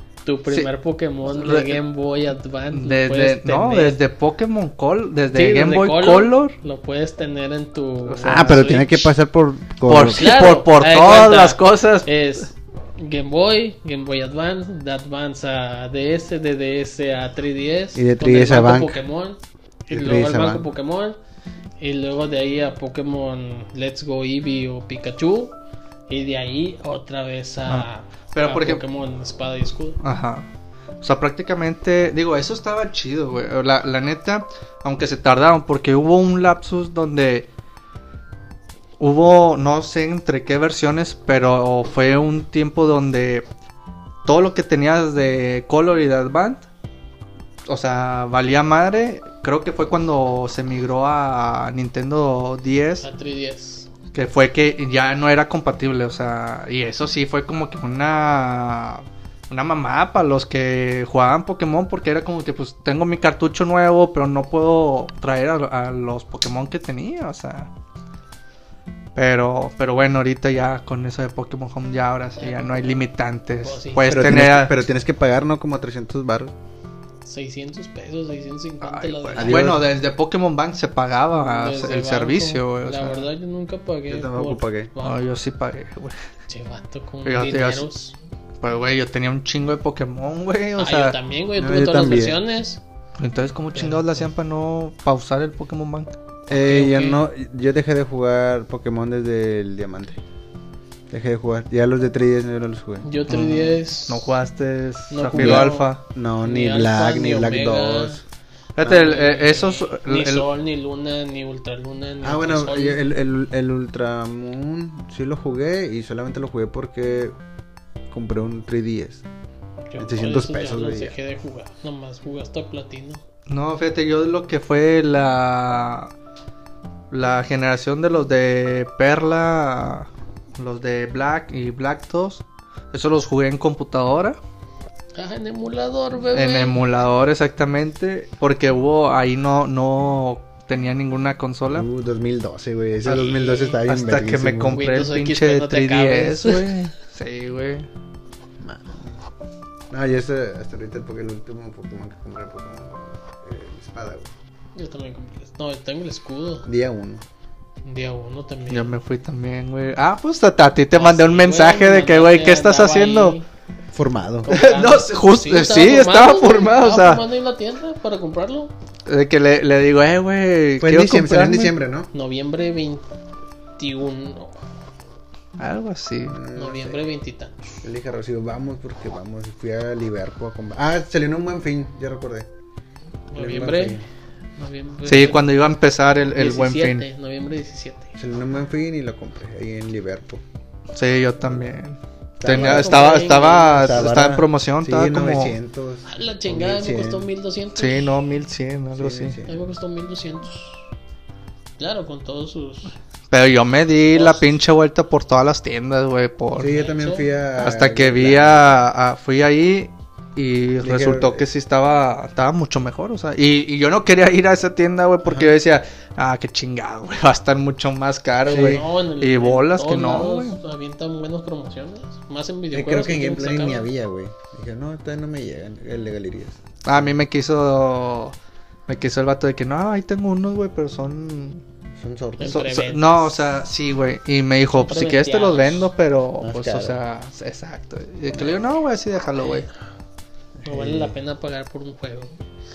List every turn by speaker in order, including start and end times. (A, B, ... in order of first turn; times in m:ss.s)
0:00.2-0:04.0 A
0:01.2-0:01.8 B
0:02.7-0:06.6 B
0:05.3-0:09.1 A
0:08.1-0:08.9 B
0:08.2-0:10.4 C
0:09.9-0:12.1 B
0:10.1-0:21.2 A
0:17.9-0:19.0 C
0:19.9-0:20.6 C
0:21.8-0:25.5 A
0:26.1-0:30.0 A
0:27.7-0:28.8 B
0:30.0-0:30.5 B
0:31.0-0:37.5 B
0:39.0-0:43.4 B
0:44.2-0:46.6 B
0:47.7-0:53.0 B
0:53.0-0:53.9 A
0:54.1-1:07.7 B
1:09.1-1:14.8 B
1:12.4-1:13.0 A
1:13.6-1:14.2 A
1:14.0-1:16.5 C
1:17.2-1:19.7 A
1:18.8-1:23.3 B
1:19.4-1:19.9 C
1:21.4-1:25.2 A
1:24.1-1:24.9 C
1:25.0-1:26.2 B
1:26.5-1:28.2 A
1:27.2-1:27.8 B
1:28.6-1:31.2 B
1:30.8-1:32.8 A
1:31.6-1:32.4 C
1:33.2-1:36.1 B
1:33.7-1:34.3 A
1:36.5-1:37.2 A
1:36.5-1:40.2 C
1:41.1-1:43.1 C
1:43.0-1:44.3 A
1:43.3-1:46.0 B
1:45.1-1:45.9 A
1:45.3-1:48.2 C
1:46.4-1:48.2 A
1:48.8-1:50.4 B
1:48.8-1:49.1 C
1:48.8-1:53.0 A
1:52.2-1:57.3 C
1:58.1-1:59.2 C
1:59.9-2:03.2 A
2:00.0-2:01.1 C
2:03.5-2:06.1 B
2:07.1-2:14.4 B
2:15.2-2:16.8 A
2:16.3-2:21.9 B
2:21.7-2:24.8 C
2:23.0-2:23.8 A
2:23.0-2:27.9 B
2:24.7-2:26.6 A
2:28.6-2:29.2 C
2:29.9-2:34.3 C
2:34.7-2:36.6 A
2:36.6-2:37.2 C
2:37.8-2:38.9 A
2:38.7-2:43.4 B
2:40.9-2:43.4 A
2:43.9-2:44.5 C
2:44.4-2:48.7 A
2:44.5-2:47.2 B
2:49.0-2:51.7 B
2:50.8-2:52.1 C
2:52.1-2:53.0 A
2:53.8-2:54.6 A
2:55.6-2:56.4 B
2:56.2-2:57.0 C
2:56.5-2:57.7 A
2:57.8-3:02.5 C
3:03.3-3:04.0 A
3:03.3-3:04.0 C
3:04.6-3:05.4 A
3:05.0-3:07.0 B
3:06.3-3:08.1 A
3:08.2-3:10.4 C
3:10.9-3:15.6 B
3:12.4-3:17.3 C
3:12.4-3:13.9 A
3:16.1-3:18.1 A
3:17.8-3:19.4 B
3:18.9-3:19.6 C
3:19.4-3:20.8 A
3:21.8-3:22.9 A
3:23.3-3:26.8 B
3:24.1-3:24.5 A
3:26.6-3:28.8 C
3:26.6-3:27.3 A
3:27.6-3:40.6 B
3:30.8-3:31.4 C
3:35.2-3:35.5 C
3:38.5-3:38.8 C
3:38.5-3:43.8 A
3:42.7-3:47.2 C
3:46.8-3:48.4 B
3:48.9-3:51.6 B
3:52.0-3:52.6 C
3:52.4-3:53.1 A
3:52.4-3:59.7 B
3:54.7-3:55.8 A
3:56.4-3:57.0 C
4:00.6-4:01.1 C
4:00.6-4:02.3 A